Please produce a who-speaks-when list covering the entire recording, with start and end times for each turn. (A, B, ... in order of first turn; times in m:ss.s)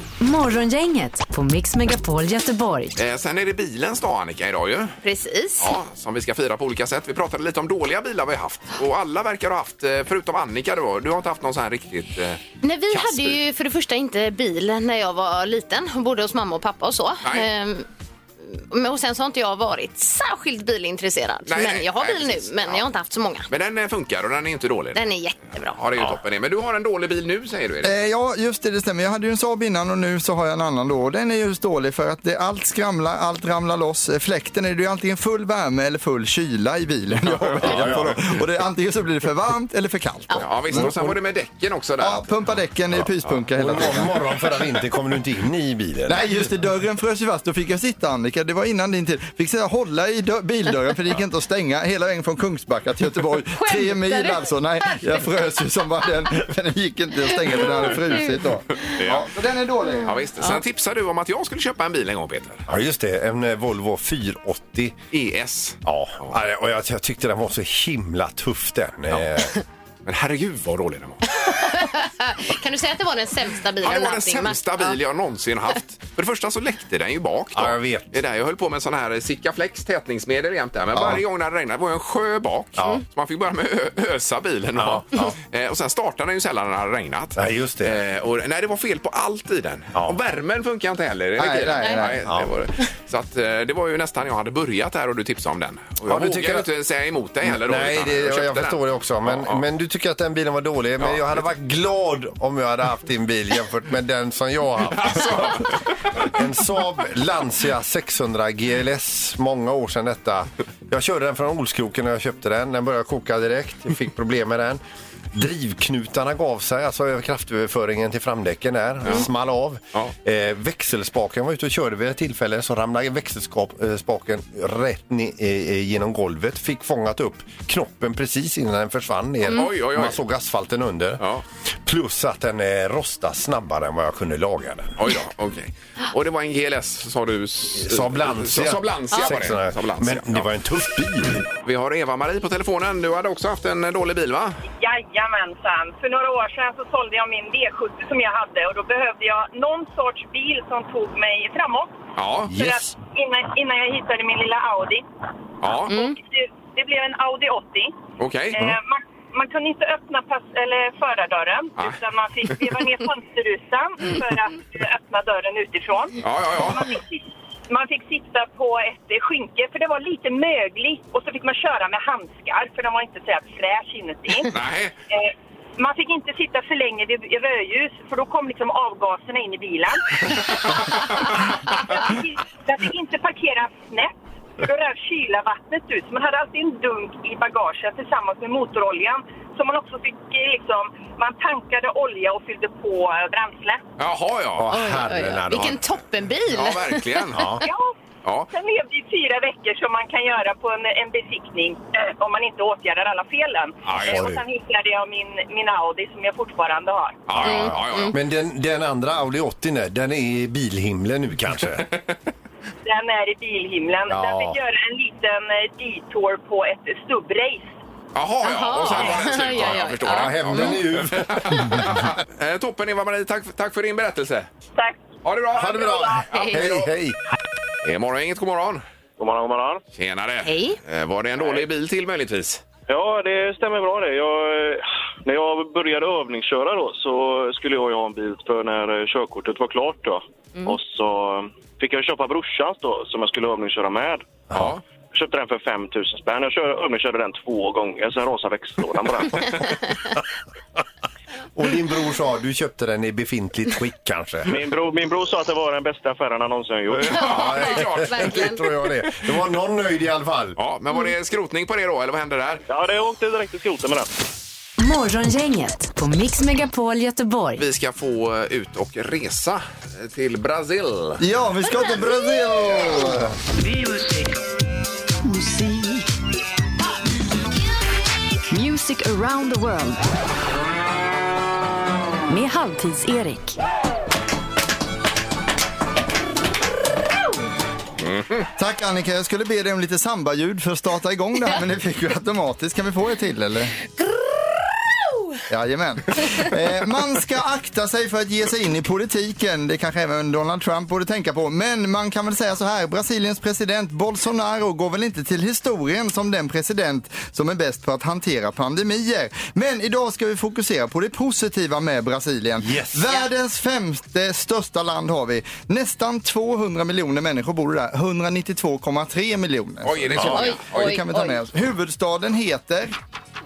0:00.2-0:02.9 A
0:03.0-0:05.0 B
0:05.0-0:05.7 C
0:05.6-0:13.4 B
0:12.6-0:17.9 C
0:18.5-0:23.5 C
0:21.4-0:22.9 B
0:23.5-0:25.0 B
0:24.9-0:25.8 C
0:25.8-0:27.9 B
0:27.8-0:41.2 D
0:37.5-0:38.4 E
0:40.4-0:42.5 B
0:42.0-0:44.1 D
0:42.9-0:46.3 E
0:46.1-1:00.2 D
0:53.5-0:55.3 C
0:57.4-0:59.0 C
0:58.8-0:59.3 B
0:59.9-1:00.6 C
1:00.0-1:02.6 B
1:02.7-1:05.0 E
1:05.1-1:06.4 B
1:05.8-1:09.6 E
1:10.1-1:11.3 B
1:11.4-1:15.0 C
1:13.8-1:39.6 B
1:17.6-1:18.1 E
1:20.9-1:21.2 E
1:22.8-1:23.0 E
1:24.8-1:25.4 E
1:27.4-1:28.0 E
1:31.4-1:32.3 D
1:36.1-1:36.7 E
1:37.4-1:54.8 E
1:41.0-1:41.4 B
1:44.9-1:46.0 B
1:55.3-2:11.3 E
1:59.0-1:59.3 B
2:09.5-2:10.2 B
2:11.8-2:15.0 E
2:15.0-2:20.5 B
2:17.8-2:21.5 E
2:21.6-2:24.6 B
2:24.6-2:35.0 F
2:32.2-2:32.5 B
2:32.5-2:32.9 E
2:35.6-2:36.0 B
2:35.9-2:37.9 F
2:35.9-2:36.1 C
2:38.2-2:38.7 B
2:38.5-2:54.5 F
2:46.2-2:46.9 B
2:54.5-2:54.9 B
2:55.1-3:00.3 F
3:00.7-3:01.1 B
3:01.2-3:13.8 F
3:14.0-3:14.7 B
3:14.6-3:15.8 E
3:14.7-3:17.5 C
3:15.5-3:15.8 B
3:16.5-3:17.6 B
3:17.3-3:17.6 E
3:17.6-3:17.9 F
3:18.2-3:18.5 B
3:18.5-3:27.2 F
3:23.9-3:24.2 B
3:23.9-3:24.4 E
3:27.3-3:28.2 B
3:27.4-3:31.9 E
3:27.4-3:28.1 C
3:32.8-3:37.8 F
3:34.1-3:34.6 E
3:38.1-3:44.5 B
3:38.4-3:40.8 C
3:40.0-3:42.1 E
3:44.8-3:45.1 F
3:45.2-3:46.9 B
3:45.5-3:47.2 E
3:45.6-3:46.3 F
3:46.3-3:46.6 C
3:47.8-3:48.8 B
3:49.2-3:49.8 G
3:49.9-3:52.6 B
3:50.4-3:50.8 C
3:52.9-4:04.3 G
4:04.5-4:04.8 B
4:05.1-4:09.6 G
4:11.6-4:14.5 E
4:14.4-4:17.2 G
4:17.0-4:18.4 B
4:17.1-4:18.6 C
4:17.1-4:20.6 E
4:20.6-4:22.6 B
4:22.7-4:24.1 G
4:24.8-4:27.6 A
4:27.6-4:31.2 B
4:31.2-4:33.4 D
4:38.5-4:40.0 A
4:42.3-4:43.5 A
4:48.0-4:48.4 B
4:48.6-4:53.8 D
4:55.5-5:22.9 D
5:12.6-5:13.1 E
5:19.8-5:20.9 B
5:20.1-5:20.5 E
5:20.3-5:21.4 C